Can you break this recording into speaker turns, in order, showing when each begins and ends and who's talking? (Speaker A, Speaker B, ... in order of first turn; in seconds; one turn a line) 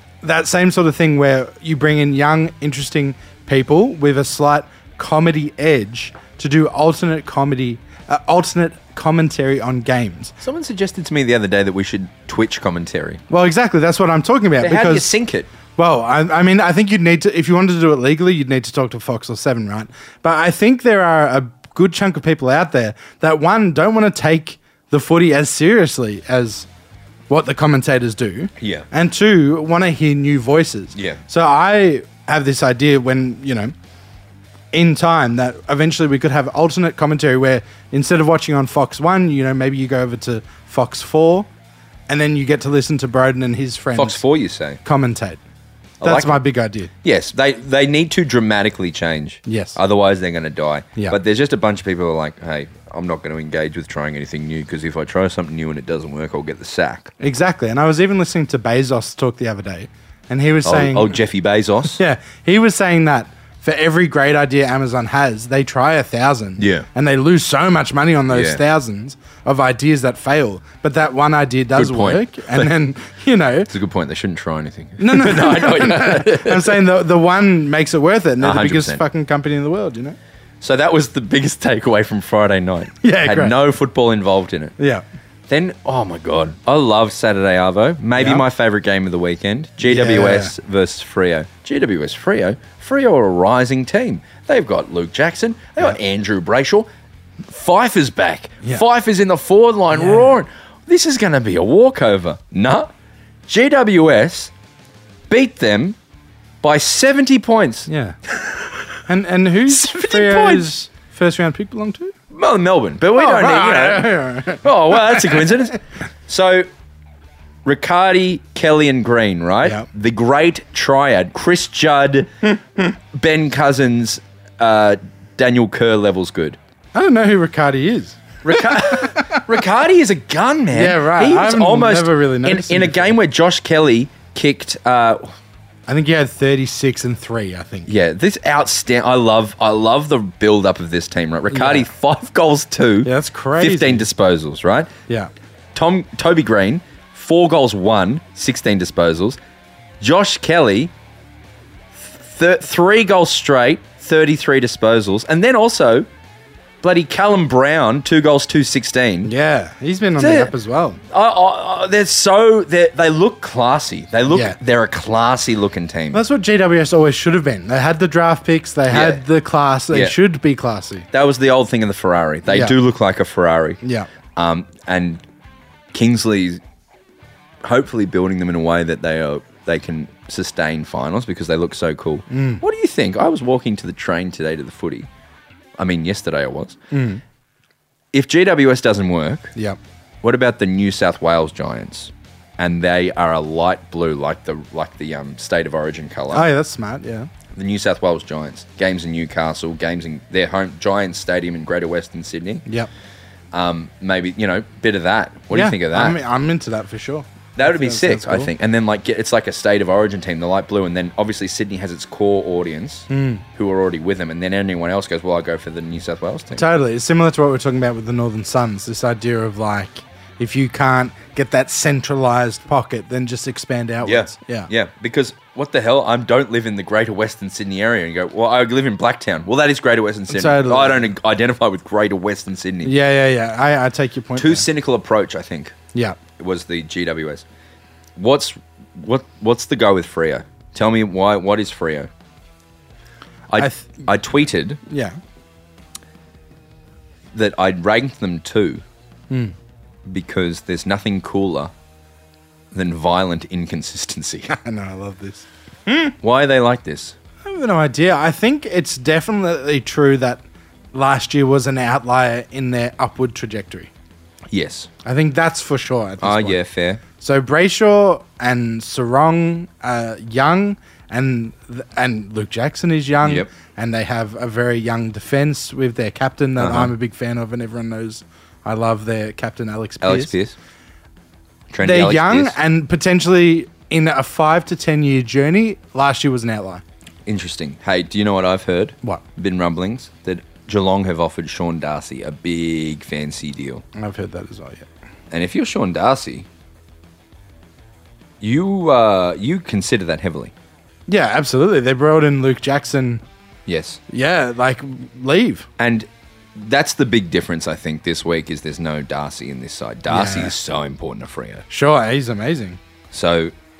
Speaker A: 0.2-10.3
Speaker B: 10.4-13.2
Speaker A: 13.3-15.1
Speaker B: 14.6-15.5
Speaker A: 15.8-26.7
Speaker A: 27.3-33.7
Speaker B: 28.6-28.9
Speaker B: 30.9-31.2
Speaker A: 34.7-41.5
Speaker A: 42.1-44.2
Speaker B: 43.9-44.8
Speaker A: 44.8-45.4
Speaker B: 46.0-46.4
Speaker A: 46.0-46.9
Speaker B: 47.0-57.1
Speaker A: 49.5-49.8
Speaker A: 57.2-61.2
Speaker B: 60.6-62.0
Speaker A: 61.9-73.7
Speaker B: 66.6-66.8
Speaker B: 68.3-68.6
Speaker B: 71.7-72.7
Speaker B: 73.7-76.8
Speaker A: 75.0-80.2
Speaker B: 78.4-79.0
Speaker B: 80.6-84.7
Speaker A: 83.0-83.5
Speaker A: 84.8-85.0
Speaker B: 85.5-96.9
Speaker A: 88.2-88.4
Speaker A: 89.8-90.5
Speaker B: 97.5-102.9
Speaker A: 99.9-100.3
Speaker B: 103.5-104.5
Speaker B: 105.3-106.0
Speaker B: 106.6-107.9
Speaker A: 107.9-108.2
Speaker A: 109.0-112.1
Speaker B: 109.7-110.7
Speaker B: 112.3-116.7
Speaker A: 113.1-115.6
Speaker B: 117.6-122.3
Speaker B: 123.1-126.6
Speaker A: 126.9-129.4
Speaker B: 128.4-135.3
Speaker A: 130.7-133.2
Speaker A: 135.9-137.9
Speaker B: 137.9-144.9
Speaker A: 141.5-141.9
Speaker A: 143.0-144.1
Speaker B: 145.7-149.4
Speaker B: 150.0-150.9
Speaker B: 151.9-156.1
Speaker B: 156.8-159.3
Speaker A: 159.2-161.0
Speaker B: 160.2-160.5
Speaker B: 161.1-166.2
Speaker A: 164.3-164.6
Speaker A: 166.1-171.1
Speaker B: 168.9-169.2
Speaker B: 171.1-173.8
Speaker A: 172.5-172.8
Speaker A: 173.8-174.1
Speaker B: 174.3-175.2
Speaker B: 175.9-176.6
Speaker B: 177.6-185.1
Speaker A: 182.3-182.6
Speaker B: 185.8-186.8
Speaker A: 186.9-187.2
Speaker B: 188.1-189.5
Speaker B: 190.2-196.5
Speaker A: 196.3-197.3
Speaker B: 197.5-202.7
Speaker B: 203.5-206.2
Speaker A: 205.5-208.5
Speaker B: 207.6-216.7
Speaker A: 213.1-213.4
Speaker A: 216.5-224.7
Speaker B: 224.0-232.9
Speaker A: 230.3-231.1
Speaker A: 232.8-234.7
Speaker B: 234.4-235.8
Speaker B: 236.4-237.4
Speaker B: 238.2-242.1
Speaker B: 243.5-244.8
Speaker A: 243.6-244.0
Speaker A: 244.9-245.2
Speaker B: 247.3-248.8
Speaker A: 249.3-249.5
Speaker B: 250.1-251.7
Speaker B: 252.7-254.5
Speaker A: 254.5-256.1
Speaker B: 256.2-257.1
Speaker A: 257.4-263.9
Speaker B: 264.5-264.9
Speaker A: 265.0-266.6
Speaker B: 266.2-267.0
Speaker A: 267.2-280.3
Speaker B: 273.2-273.5
Speaker B: 276.6-276.9
Speaker B: 280.0-280.6
Speaker B: 281.7-282.6
Speaker A: 281.8-286.8
Speaker B: 287.2-293.8
Speaker A: 293.9-294.9
Speaker B: 295.3-296.5
Speaker B: 298.4-300.5
Speaker A: 301.1-303.2
Speaker B: 303.7-304.0
Speaker A: 304.1-305.7
Speaker B: 305.8-311.6
Speaker A: 310.1-310.5
Speaker A: 311.7-312.8
Speaker B: 313.1-313.5